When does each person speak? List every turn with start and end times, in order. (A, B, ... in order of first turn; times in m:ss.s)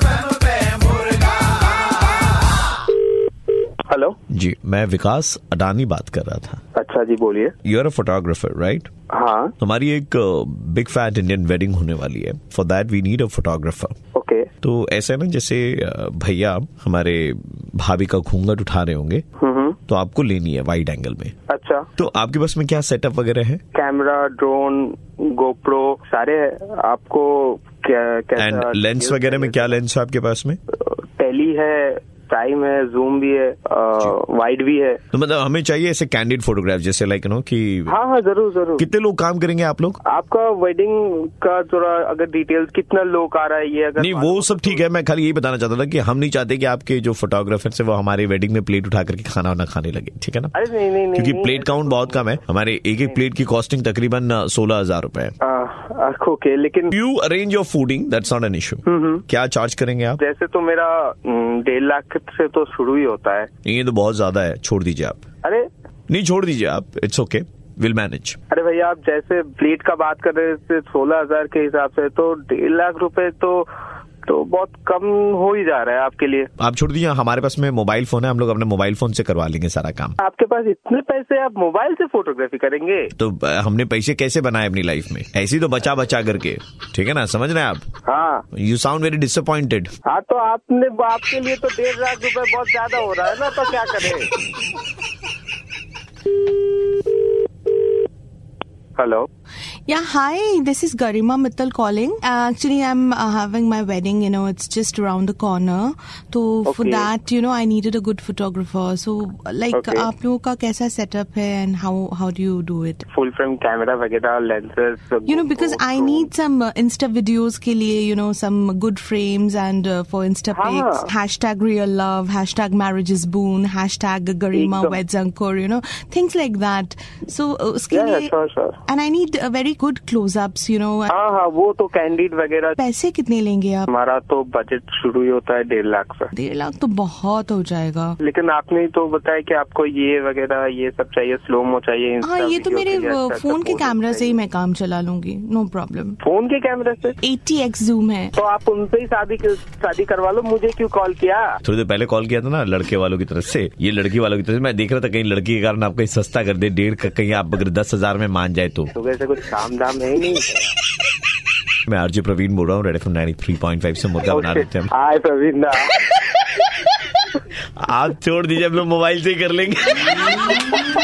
0:03.9-0:04.2 A
0:04.3-0:06.6 B
0:06.7-0:07.5 A
0:07.6-0:08.9 B
0:09.1-0:09.5 A
0:09.6-0:13.9 B
0:14.1-0:14.5 A
0:14.6-0:19.2 B
0:19.4-0:19.8 A
0:19.9-0:21.3 B
0:21.5-0:21.9 A
0:22.0-0:23.6 B
0:23.7-0:29.7 A
0:28.4-0:30.6 B
0:30.7-0:35.0 A
0:35.1-0:37.9 B
0:37.9-0:38.8 A
0:38.8-0:40.0 B
0:40.0-0:44.8 A
0:44.0-0:50.5 B
0:50.5-0:52.3 A
0:51.1-0:55.3 B
0:55.4-0:56.9 A
0:56.9-1:00.2 B
0:58.9-0:59.2 A
1:00.2-1:03.5 A
1:03.6-1:05.2 B
1:06.1-1:08.4 B
1:08.5-1:13.7 A
1:14.2-1:16.5 A
1:16.6-1:20.2 B
1:20.2-1:23.1 A
1:23.2-1:27.8 B
1:28.0-1:28.4 A
1:28.5-1:29.9 B
1:30.0-1:34.3 A
1:39.0-1:39.3 A
1:39.9-1:53.0 C
1:46.7-1:47.1 A
1:49.7-1:50.1 A
1:53.1-1:56.3 A
1:55.3-2:08.3 C
2:00.5-2:01.1 A
2:04.5-2:05.0 A
2:07.9-2:08.8 A
2:08.9-2:11.1 C
2:11.1-2:12.8 A
2:12.8-2:13.9 C
2:13.9-2:16.3 A
2:16.3-2:18.2 C
2:18.2-2:24.4 A
2:22.2-2:26.2 C
2:26.2-2:27.2 A
2:27.2-2:28.3 C
2:28.4-2:31.6 A
2:31.6-2:38.9 B
2:38.9-2:40.6 A
2:41.9-2:44.9 B
2:44.2-2:45.9 A
2:47.8-2:50.5 B